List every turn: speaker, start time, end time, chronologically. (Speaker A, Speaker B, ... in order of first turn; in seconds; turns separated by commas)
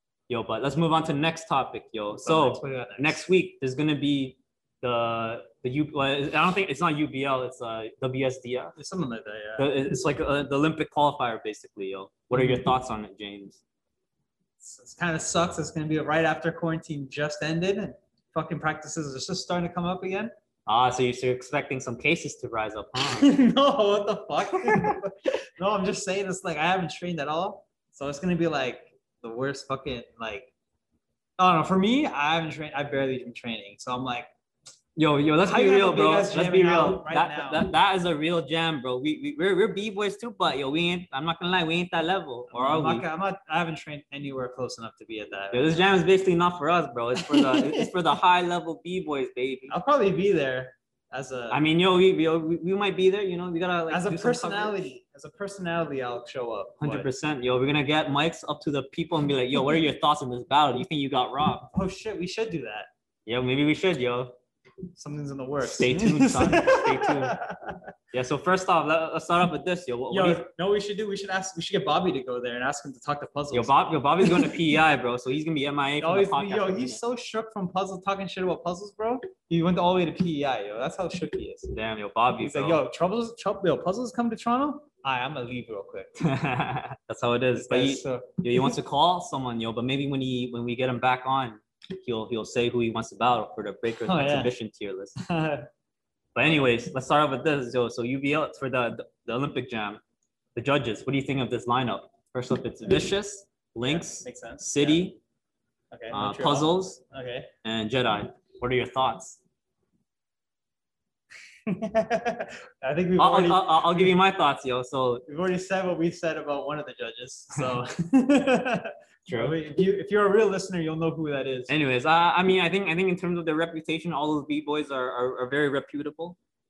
Speaker A: 0.3-8.8, Speaker B: 2.1-3.2, Speaker B: 8.8-9.7, Speaker A: 9.6-13.6, Speaker B: 12.3-12.6, Speaker B: 14.6-20.3, Speaker A: 20.7-23.4, Speaker B: 23.1-30.5, Speaker A: 24.6-24.9, Speaker B: 31.4-34.3, Speaker A: 35.0-43.0, Speaker B: 35.4-37.7, Speaker B: 42.5-45.9, Speaker A: 45.5-49.7, Speaker B: 47.1-47.9, Speaker B: 49.7-51.6, Speaker A: 51.5-54.9, Speaker B: 53.9-57.1, Speaker A: 56.8-61.7, Speaker B: 61.7-62.9, Speaker A: 63.3-64.4, Speaker B: 65.0-67.8, Speaker A: 65.7-67.4, Speaker A: 68.1-70.4, Speaker B: 70.1-74.8, Speaker A: 73.5-77.0, Speaker B: 76.0-81.7, Speaker A: 81.7-82.8, Speaker B: 82.4-86.2, Speaker A: 86.2-95.2, Speaker B: 87.5-88.8, Speaker B: 94.0-94.5, Speaker B: 95.2-95.7, Speaker A: 96.3-100.0, Speaker A: 100.5-105.2, Speaker B: 103.8-105.1, Speaker B: 105.9-107.5, Speaker A: 106.1-107.0, Speaker A: 107.6-109.4, Speaker B: 111.7-114.2, Speaker A: 113.2-115.3, Speaker B: 115.3-121.7, Speaker A: 119.3-119.6, Speaker A: 121.7-126.4